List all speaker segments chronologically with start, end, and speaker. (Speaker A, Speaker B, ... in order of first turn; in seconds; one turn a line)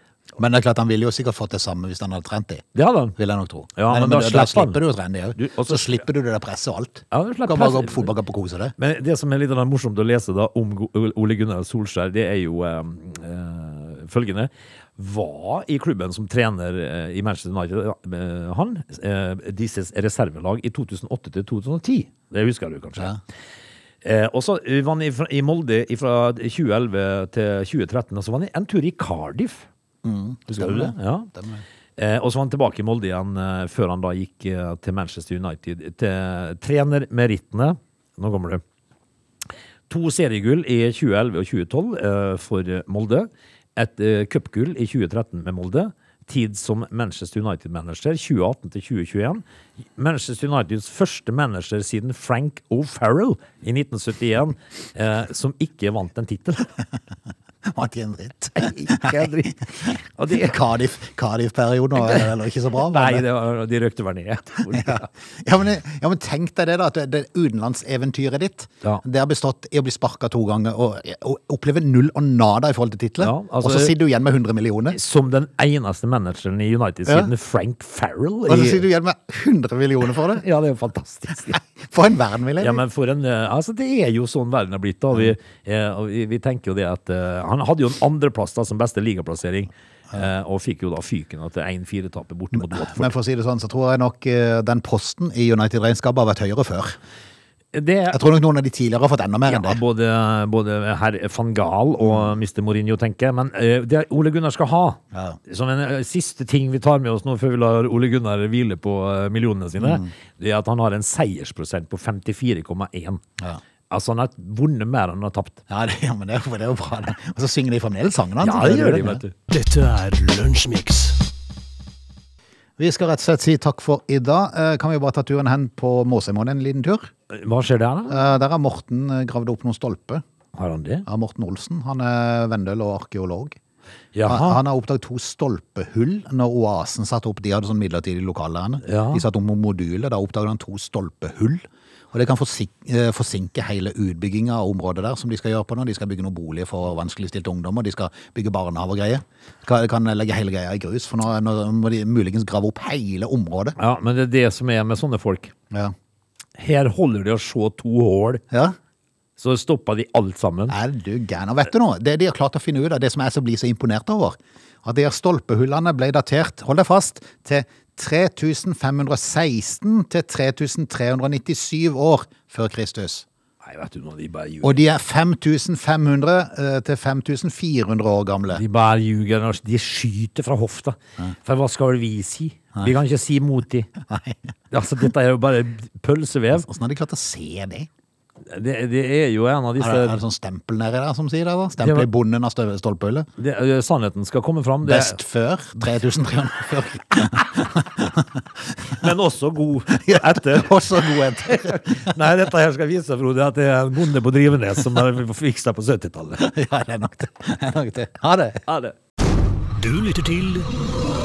Speaker A: 0.4-8.7
Speaker B: 2.7-3.2
Speaker B: 3.8-4.8
Speaker B: 5.3-6.0
Speaker B: 7.1-8.1
Speaker B: 8.8-23.1
Speaker B: 24.0-29.7
Speaker A: 30.0-31.6
Speaker B: 30.5-31.3
Speaker B: 32.0-38.6
Speaker B: 39.9-49.4
Speaker B: 50.0-56.7
Speaker A: 57.6-63.2
Speaker B: 58.5-60.6
Speaker B: 61.9-65.1
Speaker A: 64.7-75.0
Speaker B: 73.2-73.9
Speaker B: 74.9-78.8
Speaker A: 78.5-80.4
Speaker B: 80.2-81.6
Speaker A: 81.8-82.8
Speaker B: 82.6-93.1
Speaker A: 92.5-97.0
Speaker B: 97.7-98.2
Speaker A: 98.1-99.8
Speaker B: 99.5-113.2
Speaker A: 102.0-102.3
Speaker A: 105.1-105.4
Speaker A: 109.8-110.1
Speaker B: 113.9-115.6
Speaker A: 115.7-119.2
Speaker B: 118.4-119.3
Speaker C: 119.5-121.2
Speaker A: 122.8-127.1
Speaker B: 127.3-128.2
Speaker A: 128.1-130.2
Speaker B: 130.5-131.0
Speaker A: 131.0-133.6
Speaker B: 134.1-134.6
Speaker A: 134.2-153.8
Speaker B: 138.8-139.2
Speaker B: 153.8-155.5
Speaker B: 156.6-158.4
Speaker A: 158.5-158.8
Speaker B: 159.4-160.8
Speaker A: 160.7-173.2
Speaker B: 173.6-174.8
Speaker A: 174.6-178.6
Speaker B: 178.5-183.9
Speaker A: 184.0-184.4
Speaker B: 184.7-186.7
Speaker A: 186.6-187.9
Speaker B: 188.4-190.2
Speaker A: 189.8-193.3
Speaker B: 191.8-192.1
Speaker B: 193.4-195.2
Speaker A: 194.8-198.3
Speaker B: 198.9-206.5
Speaker A: 199.9-202.2
Speaker A: 206.4-208.6
Speaker B: 208.7-208.9
Speaker C: 209.8-210.7